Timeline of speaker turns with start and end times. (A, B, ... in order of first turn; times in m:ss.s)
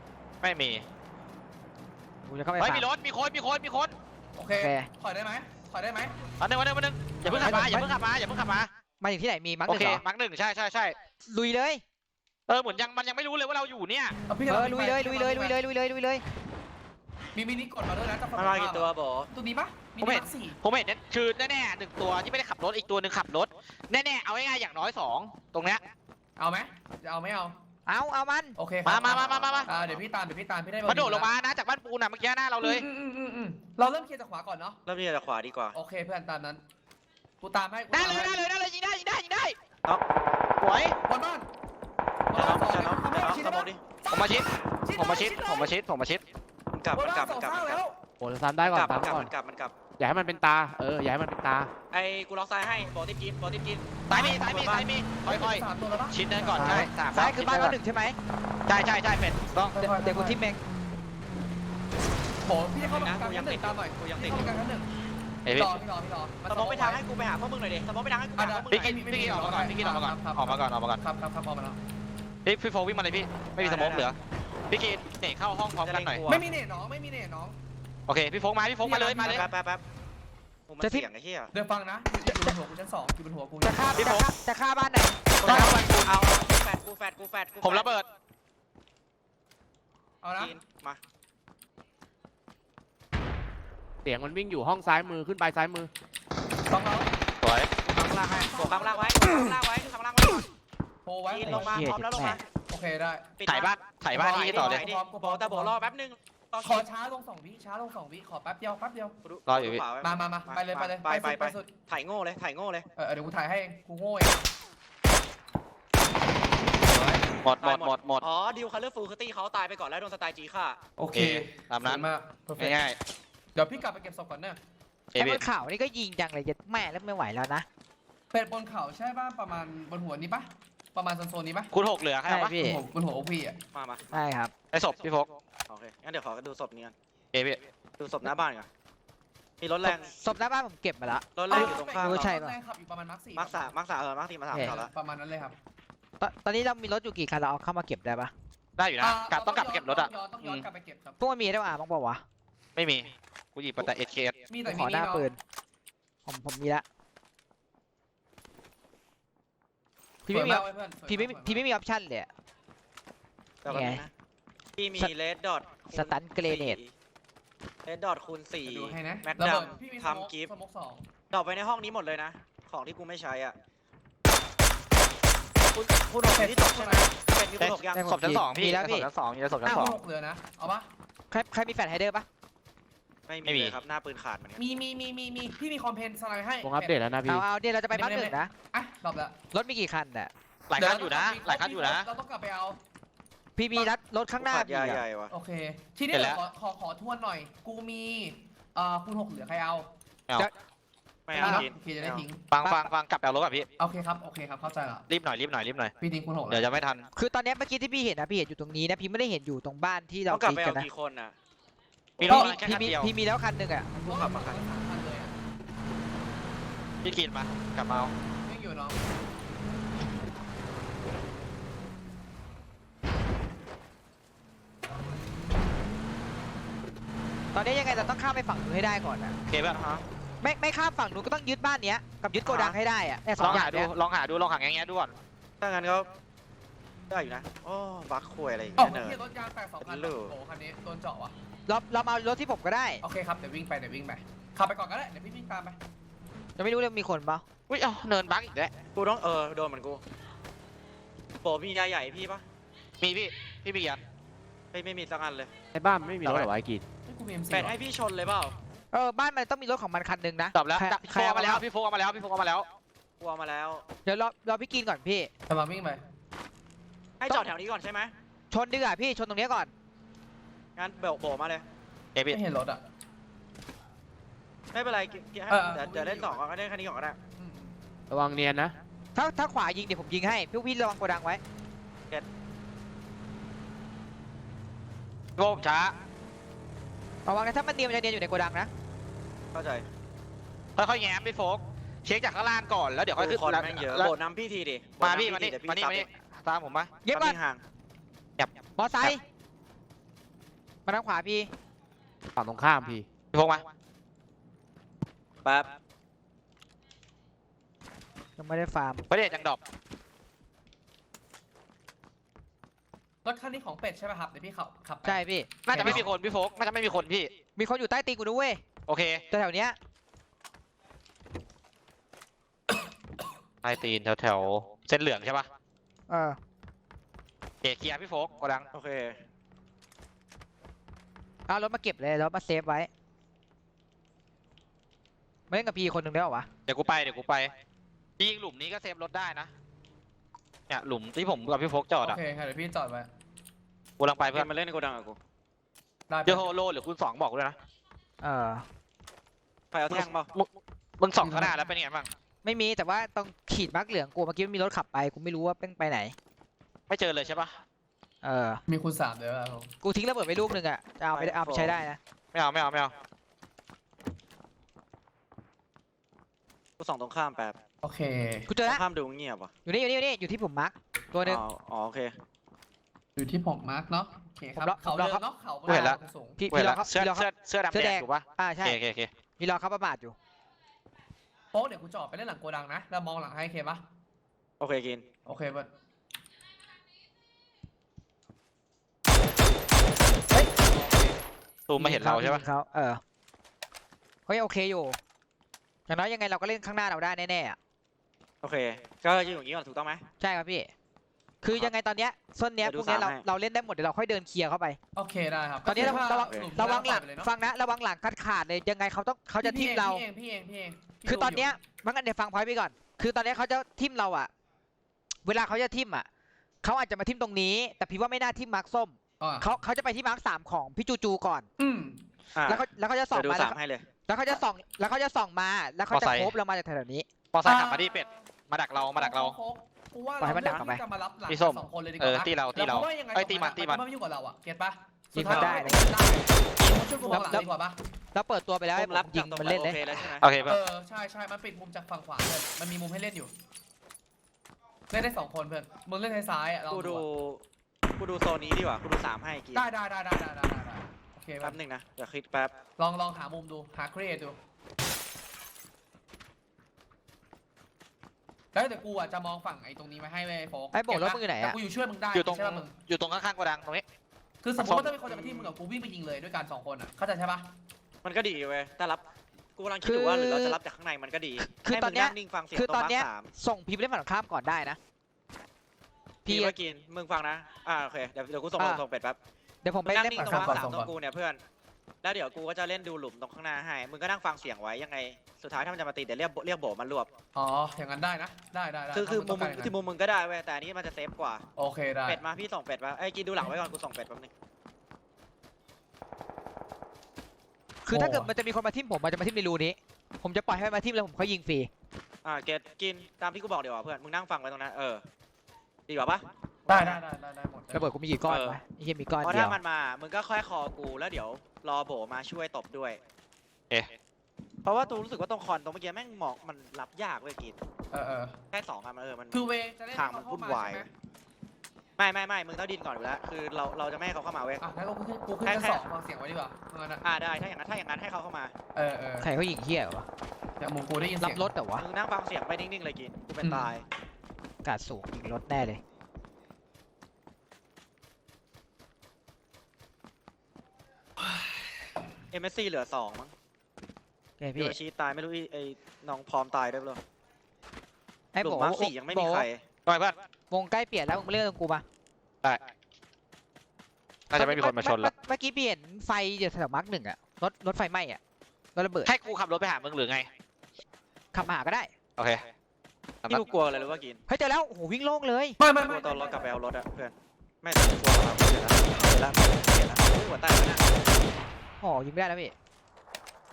0:00.4-0:00.8 A
0:02.2-0:02.9 B
0:02.6-0:03.9 A
0:04.4-0:06.1 C
0:04.6-0:04.9 B
0:06.4-0:08.7 A
0:07.2-0:07.7 C
0:07.4-0:07.9 B
0:09.0-0:10.0 B
0:09.7-0:10.9 A
0:11.3-0:11.8 B
0:12.5-0:14.2 A
0:14.3-0:15.6 C
0:14.5-0:16.2 B
0:17.3-0:20.6 C
0:18.4-0:19.3 D
0:20.0-0:25.9 A
0:26.4-0:27.5 C
0:27.9-0:28.6 B
0:28.6-0:31.3 C
0:28.8-0:29.7 A
0:29.0-0:30.0 D
0:30.8-0:32.8 A
0:32.6-0:34.8 C
0:34.8-0:35.8 D
0:35.7-0:36.6 C
0:37.4-0:38.4 C
0:37.9-0:39.5 A
0:40.6-0:41.0 A
0:41.1-0:41.5 C
0:42.3-0:45.7 C
0:42.4-0:43.8 D
0:44.1-0:46.2 A
0:46.7-0:47.8 D
0:46.9-0:47.9 C
0:48.2-0:49.3 E
0:48.6-0:49.7 D
0:50.0-0:51.7 E
0:51.9-0:54.9 D
0:54.1-0:57.8 A
0:55.2-0:56.9 C
0:56.6-0:58.2 B
0:58.7-0:59.8 A
0:59.7-1:00.4 C
0:59.9-1:00.6 B
1:02.4-1:04.9 C
1:02.8-1:04.6 D
1:05.4-1:05.8 A
1:05.5-1:07.0 C
1:06.5-1:09.0 D
1:08.4-1:11.8 C
1:08.8-1:11.0 A
1:12.4-1:14.2 A
1:13.6-1:14.1 D
1:14.7-1:16.2 A
1:15.8-1:16.4 D
1:16.3-1:17.6 C
1:18.1-1:19.5 A
1:18.8-1:19.5 C
1:19.2-1:19.8 D
1:20.7-1:21.5 D
1:21.5-1:24.0 C
1:22.2-1:22.5 B
1:23.6-1:25.7 B
1:24.0-1:24.3 A
1:25.4-1:28.0 D
1:25.4-1:26.1 A
1:25.5-1:25.9 C
1:27.6-1:28.0 A
1:30.2-1:30.5 C
1:30.4-1:31.0 D
1:34.0-1:35.9 E
1:36.7-1:37.1 C
1:37.4-1:37.7 A
1:37.8-1:40.5 D
1:38.1-1:39.2 C
1:41.0-1:41.8 C
1:41.3-1:42.4 D
1:41.4-1:42.4 B
1:42.7-1:43.3 C
1:43.4-1:46.8 D
1:43.4-1:44.8 A
1:44.1-1:45.7 C
1:46.6-1:49.2 C
1:49.2-1:52.9 D
1:49.5-1:49.8 A
1:50.0-1:51.7 C
1:53.0-1:54.4 C
1:56.8-2:00.8 D
1:57.4-1:58.2 A
2:01.0-2:02.8 C
2:01.1-2:02.0 A
2:02.6-2:03.0 A
2:03.5-2:04.6 C
2:05.1-2:05.4 A
2:05.2-2:07.6 B
2:08.3-2:11.7 C
2:11.7-2:12.6 A
2:12.3-2:12.8 B
2:12.6-2:13.6 C
2:13.7-2:14.1 D
2:14.1-2:14.5 B
2:14.7-2:15.3 A
2:15.7-2:16.9 D
2:17.3-2:17.6 A
2:18.0-2:18.7 D
2:19.6-2:20.1 D
2:19.8-2:22.5 B
2:21.4-2:22.3 D
2:21.5-2:23.7 C
2:23.4-2:24.9 D
2:24.5-2:25.5 C
2:26.2-2:28.3 B
2:28.8-2:30.6 A
2:29.0-2:31.2 C
2:31.2-2:32.2 B
2:32.8-2:34.4 A
2:34.5-2:35.3 C
2:34.6-2:35.4 B
2:36.2-2:36.8 B
2:40.2-2:42.3 B
2:40.3-2:41.6 C
2:43.6-2:44.1 D
2:43.7-2:44.0 B
2:44.8-2:46.9 D
2:45.9-2:46.8 B
2:47.8-2:50.5 D
2:48.6-2:51.0 C
2:51.3-2:53.5 D
2:55.7-2:58.0 D
2:56.3-2:57.1 C
2:57.6-3:00.0 A
2:57.9-2:59.1 B
2:59.6-3:00.8 C
3:01.3-3:02.2 B
3:03.3-3:04.6 D
3:03.4-3:03.8 A
3:04.6-3:07.0 C
3:06.6-3:07.4 E
3:07.3-3:08.5 B
3:07.9-3:09.3 C
3:09.5-3:10.3 B
3:10.7-3:12.1 A
3:10.7-3:12.8 C
3:13.6-3:15.0 B
3:14.4-3:15.3 D
3:15.3-3:19.9 C
3:16.1-3:16.4 A
3:21.3-3:22.2 D
3:21.3-3:22.5 C
3:21.4-3:21.6 B
3:22.5-3:23.7 A
3:22.6-3:22.9 B
3:23.8-3:25.0 C
3:25.1-3:25.9 A
3:26.0-3:26.7 C
3:26.5-3:27.0 A
3:27.1-3:30.9 B
3:30.3-3:31.3 D
3:32.2-3:33.1 A
3:32.2-3:33.9 B
3:32.3-3:32.6 C
3:33.9-3:34.6 D
3:33.9-3:35.4 C
3:37.0-3:38.1 A
3:38.4-3:39.0 C
3:47.5-3:49.3 B
3:49.5-3:49.8 A
3:49.8-3:50.0 D
3:50.4-3:53.9 B
3:52.4-3:52.7 D
3:53.4-3:55.2 A
3:55.6-3:56.1 D
3:57.1-3:59.2 D
3:58.8-4:01.3 C
3:59.8-4:00.3 D
4:01.7-4:03.0 B
4:03.0-4:05.8 C
4:06.6-4:07.4 B
4:07.7-4:08.7 A
4:08.9-4:10.0 D
4:11.4-4:12.4 D
4:13.0-4:14.0 A
4:14.7-4:15.5 D
4:15.7-4:16.8 E
4:16.2-4:16.5 A
4:17.0-4:17.7 C
4:17.5-4:18.5 D
4:18.9-4:21.6 B
4:20.5-4:22.6 A
4:23.2-4:23.8 D
4:24.0-4:25.3 B
4:25.5-4:26.0 C
4:27.2-4:28.1 D
4:28.5-4:29.7 B
4:30.8-4:31.6 D
4:32.3-4:32.8 C
4:34.7-4:37.2 D
4:35.5-4:36.4 C
4:37.4-4:37.7 C
4:38.1-4:38.7 E
4:39.2-4:41.4 B
4:45.4-4:45.9 A
4:47.2-4:48.7 B
4:49.5-4:49.8 D
4:50.8-4:54.1 A
4:53.2-4:56.1 D
4:55.0-4:57.0 A
4:57.0-4:57.4 B
4:57.1-4:57.6 D
4:58.4-4:59.1 A
4:58.8-4:59.2 B
5:00.8-5:01.5 B
5:02.4-5:03.0 E
5:03.3-5:03.6 A
5:08.4-5:09.0 B
5:09.1-5:09.6 A
5:13.2-5:16.1 C
5:15.0-5:16.0 B
5:15.6-5:17.3 A
5:17.6-5:18.6 B
5:18.9-5:19.2 A
5:19.3-5:19.8 B
5:23.6-5:25.5 A
5:26.1-5:26.4 B
5:27.6-5:28.7 A
5:28.7-5:29.2 D
5:31.5-5:32.9 B
5:35.5-5:36.5 B
5:36.7-5:37.5 A
5:38.2-5:39.5 A
5:40.7-5:42.2 A
5:42.0-5:43.1 C
5:44.0-5:44.5 A
5:44.3-5:45.2 D
5:46.1-5:46.4 C
5:46.2-5:47.6 A
5:48.2-5:48.6 B
5:49.7-5:50.3 D
5:49.9-5:50.5 A
5:51.0-5:52.1 A
5:51.2-5:51.7 C
5:52.4-5:56.1 B
5:56.9-5:57.6 A
5:58.2-5:58.6 B
5:58.7-5:59.7 C
5:59.8-6:02.0 B
6:01.1-6:01.7 D
6:02.3-6:02.9 A
6:06.8-6:07.6 D
6:07.8-6:08.5 C
6:08.5-6:08.8 B
6:08.6-6:09.5 D
6:09.6-6:11.4 B
6:11.2-6:12.1 D
6:13.2-6:16.4 C
6:14.6-6:15.9 B
6:15.7-6:16.0 A
6:16.4-6:18.8 B
6:16.5-6:19.1 A
6:19.4-6:20.1 B
6:21.5-6:23.8 C
6:24.6-6:25.0 D
6:25.3-6:25.7 C
6:30.3-6:31.2 C
6:31.7-6:32.4 A
6:31.8-6:33.0 B
6:34.3-6:35.0 B
6:35.9-6:37.6 B
6:38.4-6:40.0 D
6:40.2-6:40.7 B
6:41.4-6:44.8 B
6:42.6-6:43.2 D
6:45.0-6:47.3 C
6:45.6-6:50.0 B
6:45.7-6:46.5 D
6:49.4-6:51.5 C
6:51.0-6:54.3 B
6:55.2-6:56.1 B
6:56.6-7:01.5 B
6:59.2-6:59.5 C
7:01.6-7:02.0 C
7:02.4-7:03.8 D
7:02.5-7:03.6 B
7:04.1-7:07.0 B
7:05.9-7:06.3 A
7:07.3-7:09.3 A
7:07.4-7:08.1 C
7:09.0-7:17.8 C
7:10.2-7:10.8 B
7:11.3-7:13.8 A
7:15.1-7:15.9 B
7:15.2-7:15.7 D
7:17.0-7:17.5 B
7:18.1-7:19.8 B
7:18.8-7:20.3 D
7:20.2-7:20.6 A
7:20.4-7:23.3 C
7:24.9-7:27.0 C
7:26.7-7:27.4 D
7:28.0-7:29.6 D
7:29.5-7:31.6 C
7:31.4-7:32.5 D
7:32.8-7:34.4 C
7:38.5-7:42.8 C
7:40.7-7:41.6 B
7:42.1-7:43.8 A
7:44.4-7:47.5 C
7:44.6-7:44.9 A
7:45.1-7:45.5 D
7:48.0-7:49.0 D
7:49.6-7:53.3 D
7:49.8-7:50.6 B
7:51.4-7:54.8 B
7:56.2-7:59.2 D
7:56.2-7:56.5 B
7:59.6-8:00.5 B
7:59.8-8:01.4 D
8:00.2-8:00.9 C
8:02.0-8:07.1 D
8:07.3-8:09.7 C
8:08.9-8:11.4 D
8:11.6-8:12.2 C
8:12.1-8:14.3 D
8:17.8-8:21.7 B
8:17.9-8:18.3 C
8:22.2-8:25.0 D
8:25.9-8:27.0 D
8:26.7-8:27.9 C
8:27.7-8:29.6 B
8:28.3-8:28.6 D
8:29.2-8:33.0 D
8:34.6-8:37.6 D
8:37.9-8:38.4 C
8:38.5-8:39.4 D
8:39.3-8:40.9 C
8:39.9-8:40.9 D
8:42.0-8:44.6 D
8:44.6-8:47.0 C
8:45.4-8:45.8 D
8:47.0-8:48.5 D
8:48.8-8:49.3 C
8:49.2-8:50.1 B
8:50.6-8:51.5 C
8:51.2-8:51.8 B
8:51.8-8:53.8 D
8:53.4-8:53.7 C
8:54.6-8:55.8 B
9:01.2-9:01.5 C
9:02.3-9:03.3 D
9:04.4-9:04.8 B
9:04.6-9:07.0 D
9:08.3-9:09.4 B
9:08.4-9:09.6 D
9:09.8-9:10.1 A
9:10.5-9:11.8 B
9:14.3-9:15.1 A
9:14.3-9:18.2 B
9:18.7-9:19.1 B
9:19.0-9:20.3 A
9:21.3-9:21.9 B
9:22.2-9:22.4 A
9:23.3-9:24.2 D
9:24.3-9:25.6 B
9:25.6-9:26.6 C
9:25.8-9:31.0 D
9:31.8-9:32.5 B